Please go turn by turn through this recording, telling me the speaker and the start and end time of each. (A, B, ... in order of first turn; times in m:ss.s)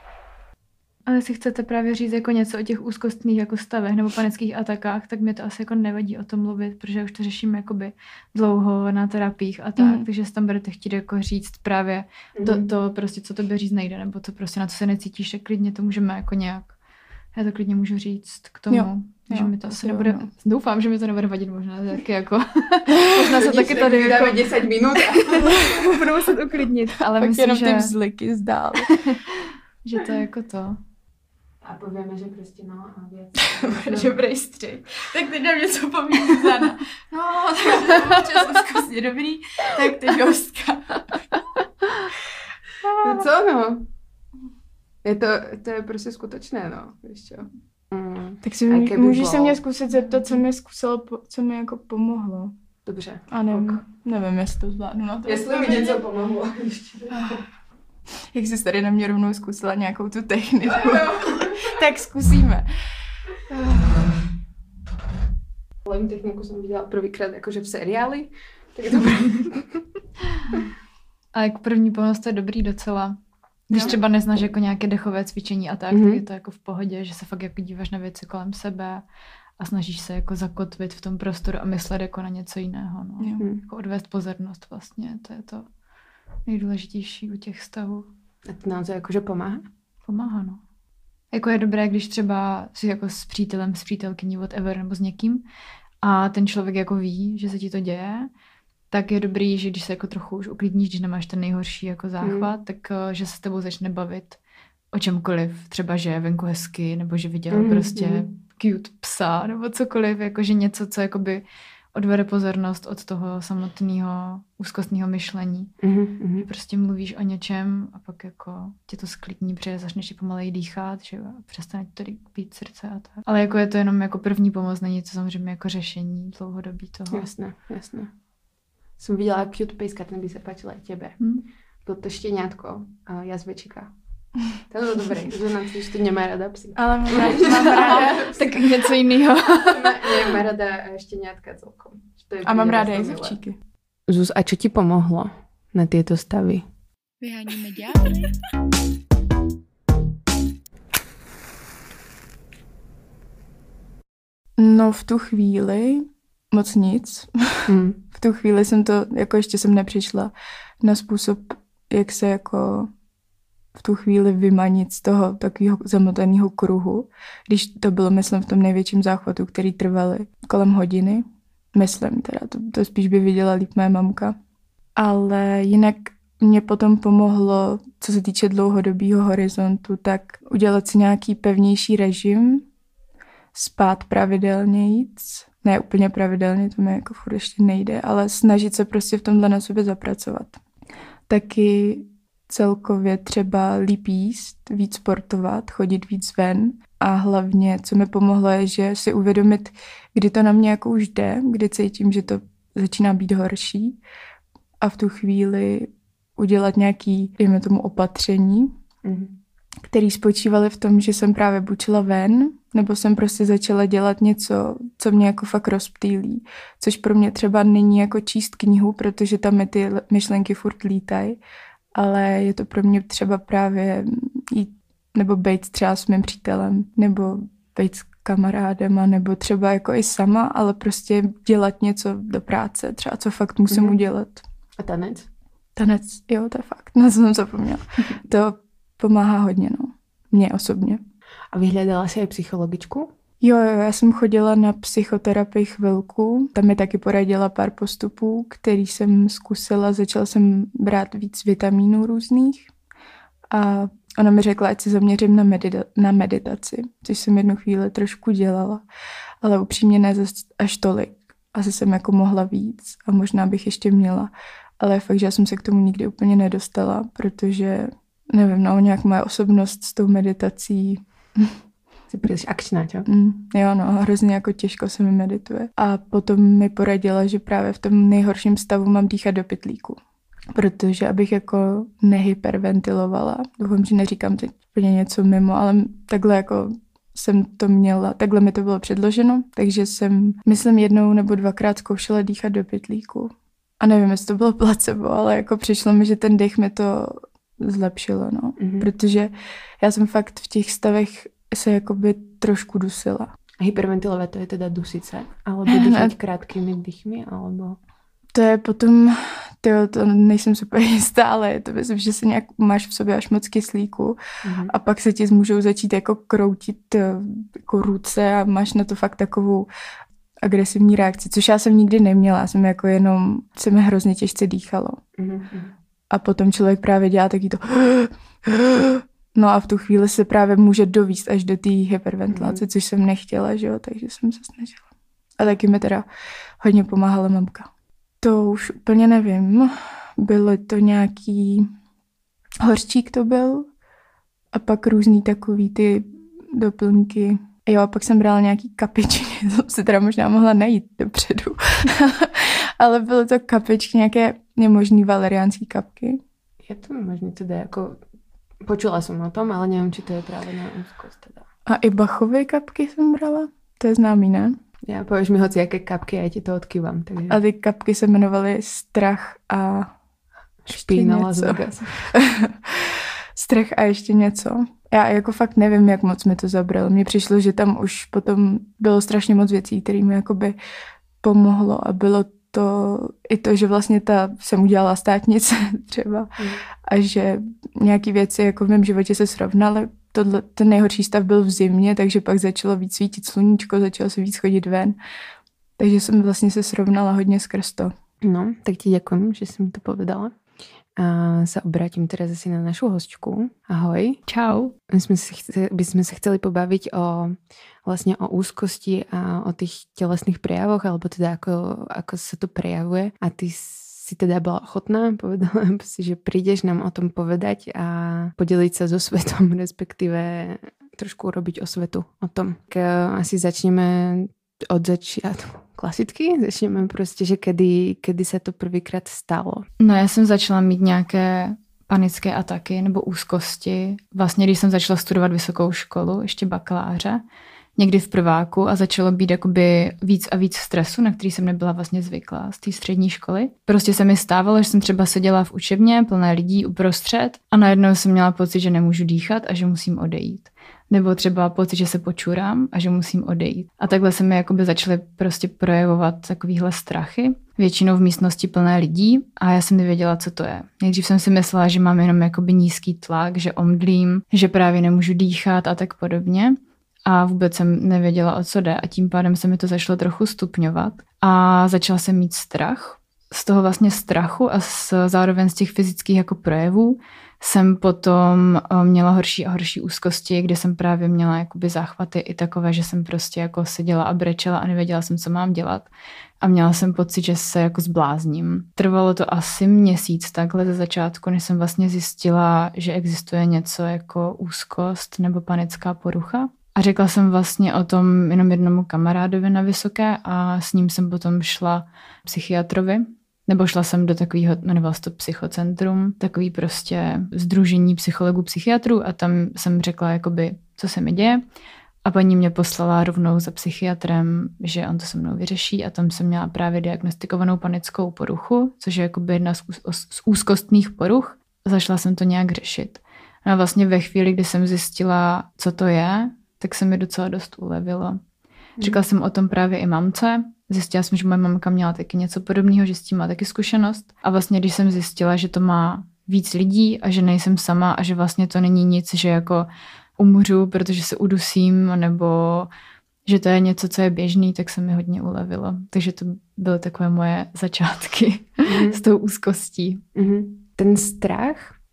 0:01.1-0:16.8 A
0:09.8-0:10.1 B
0:12.4-0:12.7 C
0:17.3-0:27.9 A
0:18.7-0:20.3 B
0:23.2-0:25.6 C
0:27.2-0:29.0 B
0:29.8-0:30.8 A
0:31.6-0:34.2 C
0:33.5-0:41.2 B
0:42.8-0:43.3 B
0:43.0-0:43.9 C
0:45.0-0:49.6 C
0:48.4-0:52.5 B
0:52.9-0:53.8 C
0:53.3-0:56.0 B
0:55.2-0:57.4 C
0:57.2-0:57.4 B
0:58.3-1:02.9 B
1:00.8-1:01.7 C
1:05.8-1:09.9 C
1:11.3-1:13.2 A
1:13.7-1:19.0 A
1:13.8-1:14.5 C
1:15.9-1:16.2 C
1:19.6-1:25.7 A
1:23.2-1:23.5 B
1:26.4-1:28.1 A
1:28.4-1:29.7 C
1:30.0-1:30.6 A
1:31.3-1:35.4 A
1:36.0-1:38.3 A
1:38.9-1:44.4 A
1:42.2-1:42.5 C
1:44.9-1:55.7 A
1:47.5-1:48.3 C
1:55.8-1:56.5 C
1:56.4-2:07.3 A
2:07.1-2:08.1 C
2:09.0-2:11.3 C
2:11.2-2:11.4 A
2:11.8-2:13.9 C
2:14.5-2:18.9 C
2:16.8-2:18.3 B
2:17.3-2:20.3 A
2:19.6-2:23.4 C
2:22.4-2:23.6 B
2:24.1-2:26.6 C
2:27.2-2:28.3 B
2:34.6-2:42.9 B
2:37.7-2:38.0 C
2:43.8-2:51.2 B
2:51.8-2:54.4 B
2:55.0-3:02.7 B
3:03.5-3:10.6 B
3:11.3-3:24.0 B
3:24.8-3:28.7 B
3:29.0-3:29.3 C
3:29.9-3:41.4 B
3:42.0-3:54.4 B
3:53.7-3:54.0 C
3:54.8-3:55.3 C
3:55.8-4:01.0 B
4:01.5-4:03.1 C
4:03.4-4:12.7 B
4:13.5-4:18.8 B
4:19.4-4:31.5 B
4:32.1-4:33.1 C
4:33.1-4:40.0 B
4:40.6-5:03.3 B
4:58.6-4:58.9 C
5:03.6-5:07.8 C
5:05.7-5:06.1 B
5:08.4-5:14.2 B
5:14.4-5:14.7 C
5:14.7-5:19.7 B
5:20.4-5:25.0 B
5:25.2-5:25.7 C
5:26.1-5:34.8 B
5:32.3-5:32.6 C
5:35.4-5:36.1 B
5:36.6-5:37.7 B
5:38.2-5:41.7 B
5:42.6-5:43.7 B
5:44.5-5:56.2 B
5:56.6-5:58.0 C
5:58.6-6:01.4 C
6:01.7-6:04.6 B
6:04.9-6:07.4 C
6:07.3-6:09.9 B
6:10.6-6:12.1 C
6:10.7-6:20.6 B
6:21.2-6:26.4 B
6:26.4-6:26.6 C
6:26.9-6:35.0 B
6:35.8-6:37.9 B
6:38.2-6:40.3 C
6:41.0-6:44.2 C
6:44.3-6:44.7 A
6:44.9-7:09.7 C
7:09.8-7:17.2 A
7:17.8-8:05.9 A
8:06.4-8:31.4 A
8:32.0-8:48.2 A
8:48.8-9:02.7 A
9:03.3-9:10.0 A
9:08.7-9:09.0 C
9:10.2-9:11.8 C